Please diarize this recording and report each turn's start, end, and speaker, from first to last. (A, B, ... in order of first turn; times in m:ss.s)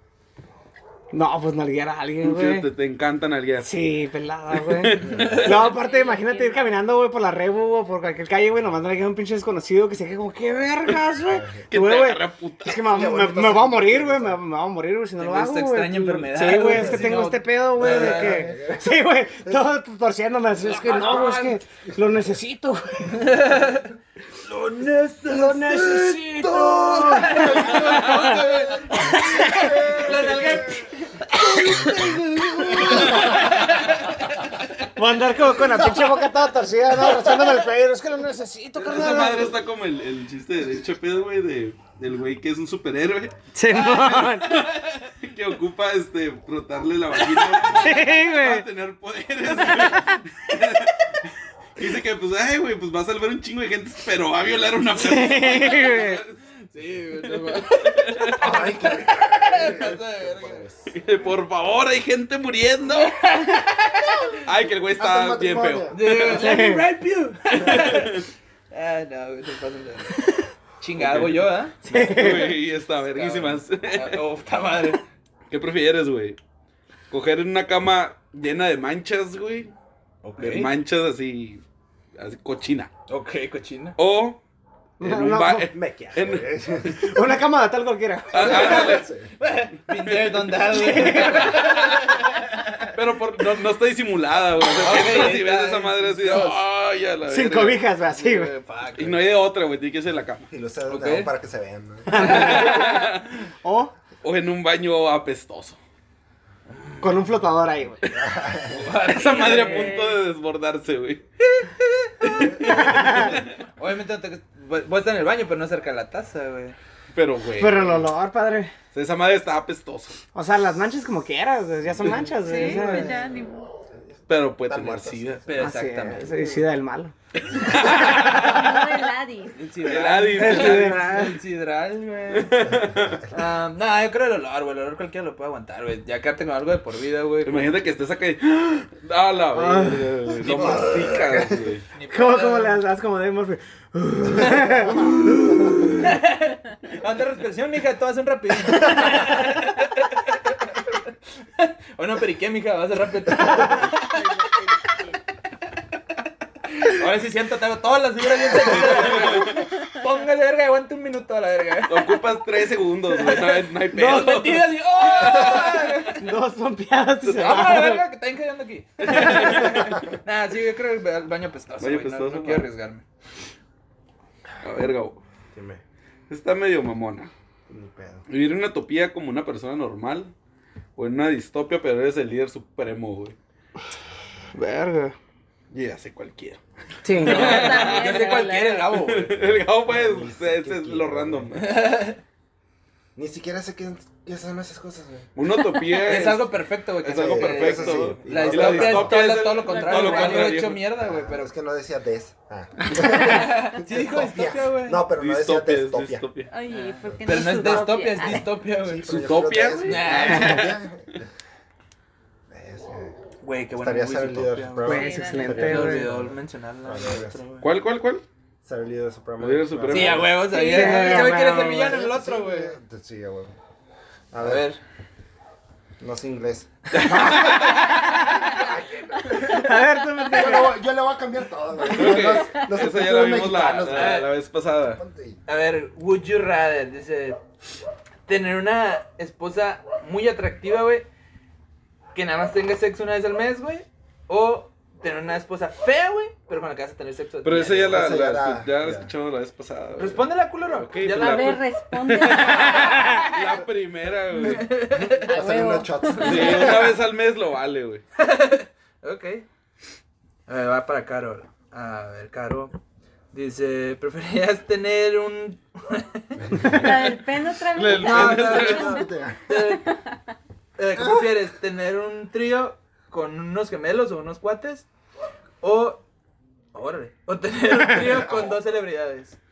0:01.1-0:02.7 A
0:02.2-0:03.7 B
0:03.6-0:23.4 A
0:04.5-0:05.5 B
0:05.1-0:05.5 C
0:05.5-0:06.8 D
0:11.2-0:11.6 E
0:11.7-0:12.9 B
0:12.8-0:14.4 E
0:15.2-0:18.5 C
0:16.6-0:19.6 E
0:20.6-0:21.6 C
0:23.1-0:34.4 C
0:25.2-0:30.7 A
0:27.8-0:28.3 B
0:32.6-0:33.7 B
0:35.0-0:39.6 A
0:38.8-0:43.4 B
0:43.5-0:44.6 A
0:43.8-0:44.7 C
0:43.9-0:51.1 B
0:47.4-0:47.7 C
0:47.7-0:48.6 A
0:49.8-0:50.1 A
0:51.8-0:56.4 B
0:55.0-0:56.2 A
0:56.7-1:00.7 C
0:57.3-0:58.7 B
0:58.4-1:00.9 E
1:00.9-1:03.2 B
1:02.9-1:04.3 C
1:04.4-1:06.3 B
1:04.9-1:06.0 E
1:05.9-1:11.8 C
1:06.2-1:06.8 A
1:07.6-1:08.2 B
1:11.0-1:14.2 B
1:11.8-1:12.6 A
1:13.1-1:15.0 C
1:15.5-1:16.4 B
1:17.1-1:19.7 B
1:20.2-1:20.7 C
1:20.4-1:21.6 B
1:22.2-1:22.9 B
1:23.1-1:24.0 C
1:24.0-1:24.4 B
1:25.0-1:25.7 A
1:25.0-1:26.9 B
1:25.7-1:27.1 E
1:26.9-1:28.9 A
1:28.3-1:29.1 B
1:28.3-1:29.3 E
1:28.4-1:32.9 C
1:29.9-1:30.5 B
1:30.6-1:31.7 A
1:32.9-1:37.8 B
1:34.6-1:36.6 C
1:37.3-1:38.5 A
1:38.1-1:39.3 C
1:39.0-1:40.5 B
1:40.5-1:42.5 E
1:40.9-1:41.3 C
1:42.1-1:43.1 A
1:42.1-1:43.3 B
1:42.2-1:43.0 C
1:43.6-1:43.9 A
1:44.2-1:45.8 B
1:47.0-1:48.0 A
1:48.0-1:53.5 B
1:48.1-1:48.8 E
1:48.7-1:50.0 C
1:49.5-1:50.1 D
1:52.2-1:56.8 C
1:52.8-1:53.3 A
1:57.1-1:58.0 B
1:57.6-1:58.7 A
1:58.9-2:00.2 B
2:00.3-2:03.2 A
2:02.4-2:03.7 D
2:02.4-2:03.3 C
2:04.1-2:05.3 E
2:04.3-2:05.5 B
2:05.4-2:06.6 C
2:05.6-2:07.1 A
2:07.5-2:08.8 B
2:08.3-2:09.6 D
2:09.5-2:12.6 C
2:09.8-2:11.0 B
2:10.3-2:11.4 A
2:12.3-2:13.2 B
2:12.7-2:13.2 E
2:13.3-2:17.8 C
2:17.4-2:21.8 B
2:19.5-2:20.4 A
2:20.4-2:21.6 E
2:21.9-2:22.8 C
2:22.1-2:25.3 A
2:24.3-2:25.9 E
2:26.0-2:30.7 C
2:31.6-2:34.3 C
2:36.8-2:42.3 C
2:38.6-2:39.5 B
2:41.9-2:45.7 B
2:43.0-2:46.3 C
2:43.9-2:44.7 A
2:46.1-2:48.0 A
2:47.2-2:53.0 C
2:49.0-2:49.9 B
2:51.8-2:52.7 B
2:54.6-2:55.2 B
2:55.5-2:55.8 E
2:56.3-2:57.3 B
2:57.7-2:58.2 E
2:58.3-3:00.3 B
3:01.0-3:03.4 B
3:04.5-3:05.2 A
3:05.7-3:06.6 B
3:07.0-3:07.6 A
3:07.2-3:09.5 C
3:07.2-3:08.9 D
3:07.2-3:11.8 B
3:09.8-3:11.5 E
3:11.5-3:12.2 C
3:13.2-3:15.3 E
3:15.3-3:20.9 B
3:15.9-3:21.5 C
3:17.0-3:19.2 E
3:19.4-3:20.6 D
3:20.8-3:26.2 E
3:23.0-3:25.0 C
3:25.2-3:26.5 B
3:26.5-3:28.5 D
3:26.7-3:29.2 C
3:28.8-3:31.3 E
3:29.0-3:30.7 B
3:29.8-3:30.8 C
3:32.5-3:33.1 E
3:33.4-3:37.7 C
3:33.7-3:37.4 E
3:34.8-3:36.1 A
3:34.9-3:35.6 D
3:37.6-3:38.2 B
3:38.6-3:40.4 E
3:39.4-3:40.3 B
3:39.9-3:42.8 C
3:40.5-3:42.0 A
3:40.6-3:41.2 D
3:41.0-3:43.5 E
3:44.3-3:44.7 E
3:44.4-3:44.8 C
3:46.0-3:49.7 E
3:46.9-3:48.0 B
3:47.0-3:47.7 C
3:48.2-3:49.6 C
3:49.3-3:50.8 A
3:50.3-3:54.3 E
3:51.9-3:55.0 B
3:53.8-3:54.3 C
3:55.0-3:55.4 E
3:55.4-3:57.4 C
3:58.3-4:01.1 C
4:02.1-4:08.0 C
4:07.4-4:14.8 B
4:07.6-4:09.1 E
4:10.0-4:11.6 C
4:11.0-4:13.3 D
4:12.5-4:13.3 C
4:14.3-4:15.4 C
4:14.8-4:17.0 E
4:15.2-4:16.8 D
4:16.2-4:18.0 B
4:18.2-4:19.5 C
4:20.5-4:22.7 C
4:23.3-4:26.8 C
4:26.4-4:27.1 E
4:26.6-4:29.6 D
4:27.7-4:29.0 B
4:27.9-4:30.0 C
4:28.7-4:29.4 E
4:30.8-4:34.8 C
4:31.0-4:31.2 E
4:35.6-4:36.0 C
4:36.7-4:39.4 C
4:38.0-4:38.6 E